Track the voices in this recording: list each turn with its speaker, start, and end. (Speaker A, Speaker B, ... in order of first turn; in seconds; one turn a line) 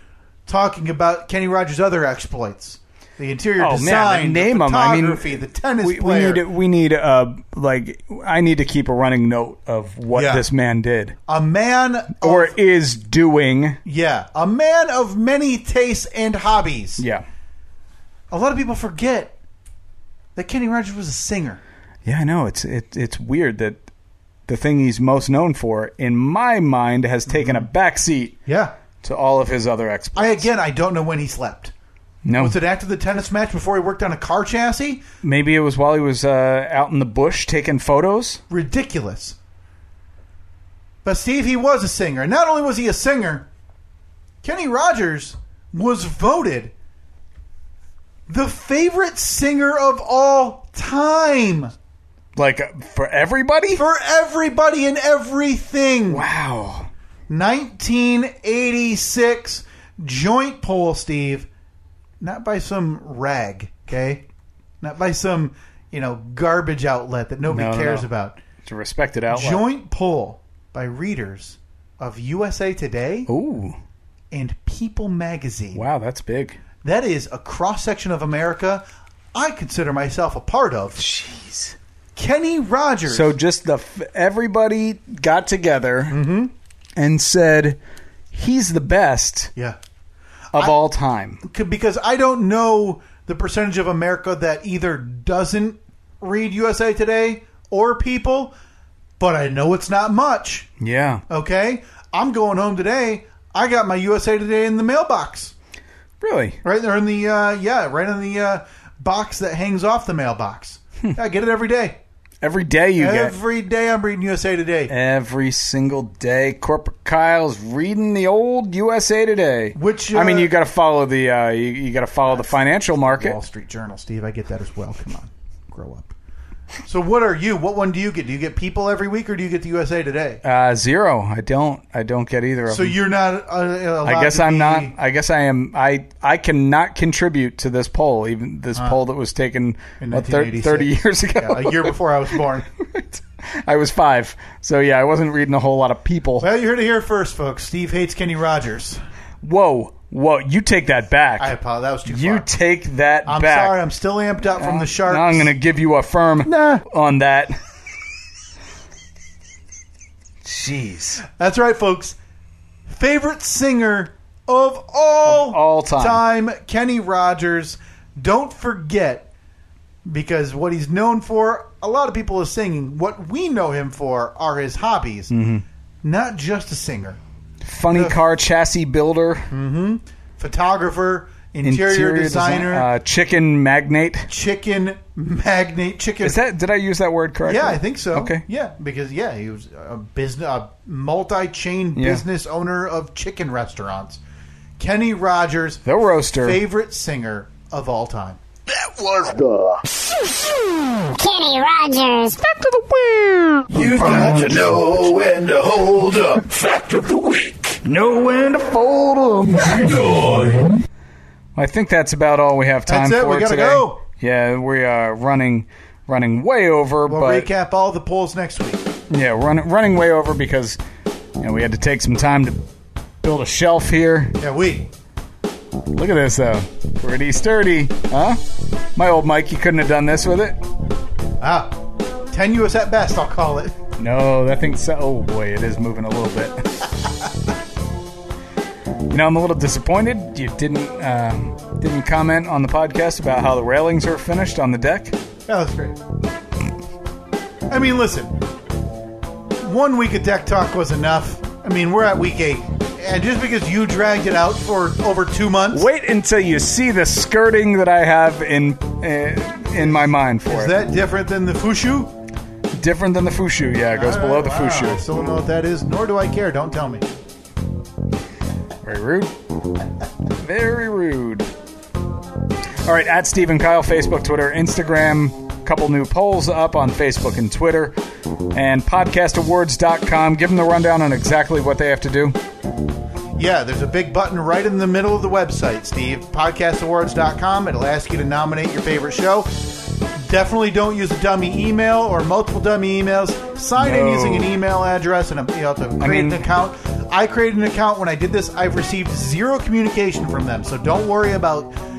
Speaker A: 0.5-6.4
Speaker B: 3.6-11.2
Speaker A: 10.1-10.4
Speaker A: 11.3-12.6
Speaker B: 12.2-13.8
Speaker A: 13.8-17.0
Speaker B: 17.0-17.2
Speaker A: 18.3-19.4
Speaker A: 20.4-21.6
Speaker B: 22.0-23.8
Speaker B: 24.5-28.4
Speaker A: 27.3-27.7
Speaker A: 28.5-28.7
Speaker B: 29.0-30.5
Speaker A: 30.1-31.7
Speaker B: 32.2-32.5
Speaker A: 32.4-35.0
Speaker B: 35.2-38.4
Speaker A: 38.5-39.4
Speaker A: 41.0-43.5
Speaker A: 44.4-46.7
Speaker A: 48.3-51.7
Speaker B: 52.4-53.8
Speaker A: 53.7-56.2
Speaker B: 56.1-56.9
Speaker A: 57.3-61.5
Speaker A: 62.2-64.2
Speaker A: 64.8-68.4
Speaker B: 67.5-68.1
Speaker B: 68.6-69.6
Speaker A: 69.3-73.3
Speaker B: 73.3-73.8
Speaker A: 74.3-75.8
Speaker B: 75.7-76.6
Speaker A: 76.8-81.0
Speaker B: 81.0-81.8
Speaker A: 82.2-83.3
Speaker B: 83.0-86.2
Speaker A: 86.1-86.5
Speaker B: 87.0-87.8
Speaker B: 88.3-89.5
Speaker B: 90.5-91.4
Speaker A: 91.4-98.5
Speaker A: 99.2-100.7
Speaker B: 100.8-101.2
Speaker A: 101.3-105.5
Speaker B: 106.2-106.6
Speaker A: 106.6-112.0
Speaker B: 112.4-113.3
Speaker A: 113.0-114.9
Speaker B: 114.9-123.4
Speaker A: 119.7-120.5
Speaker A: 122.5-126.1
Speaker A: 126.8-130.4
Speaker B: 130.4-132.9
Speaker A: 132.7-134.9
Speaker B: 134.0-146.5
Speaker A: 140.0-142.7
Speaker A: 146.4-149.0
Speaker B: 149.4-153.8
Speaker A: 151.4-152.5
Speaker A: 153.2-155.5
Speaker B: 154.6-157.6
Speaker A: 156.4-156.8
Speaker B: 160.4-161.2
Speaker A: 161.2-162.2
Speaker A: 162.9-169.3
Speaker B: 165.2-166.2
Speaker A: 170.0-175.3
Speaker B: 175.3-175.6
Speaker A: 176.0-177.2
Speaker B: 177.6-179.5
Speaker A: 177.9-178.2
Speaker A: 179.5-182.9
Speaker B: 181.6-184.3
Speaker A: 184.3-186.4
Speaker B: 186.2-188.4
Speaker A: 187.4-194.2
Speaker B: 191.9-192.2
Speaker A: 194.8-198.4
Speaker B: 195.8-196.6
Speaker C: 198.7-199.8
Speaker C: 200.8-207.9
Speaker B: 207.8-209.5
Speaker C: 209.5-210.7
Speaker B: 211.5-217.5
Speaker A: 212.8-214.0
Speaker A: 217.1-218.9
Speaker B: 219.1-220.8
Speaker B: 221.4-222.6
Speaker B: 223.2-224.4
Speaker A: 224.4-224.9
Speaker B: 225.9-228.4
Speaker B: 228.9-230.6
Speaker A: 231.4-231.8
Speaker A: 232.3-233.8
Speaker B: 234.0-236.9
Speaker B: 239.1-245.2
Speaker A: 245.5-246.0
Speaker A: 247.7-248.3
Speaker A: 249.6-255.9
Speaker B: 255.7-260.7
Speaker A: 260.4-262.1
Speaker B: 262.7-265.1
Speaker A: 263.9-267.1
Speaker B: 268.8-269.3
Speaker B: 270.3-271.5
Speaker B: 272.8-278.0
Speaker B: 278.5-282.4
Speaker A: 283.4-301.7
Speaker B: 293.8-294.6
Speaker B: 296.0-296.4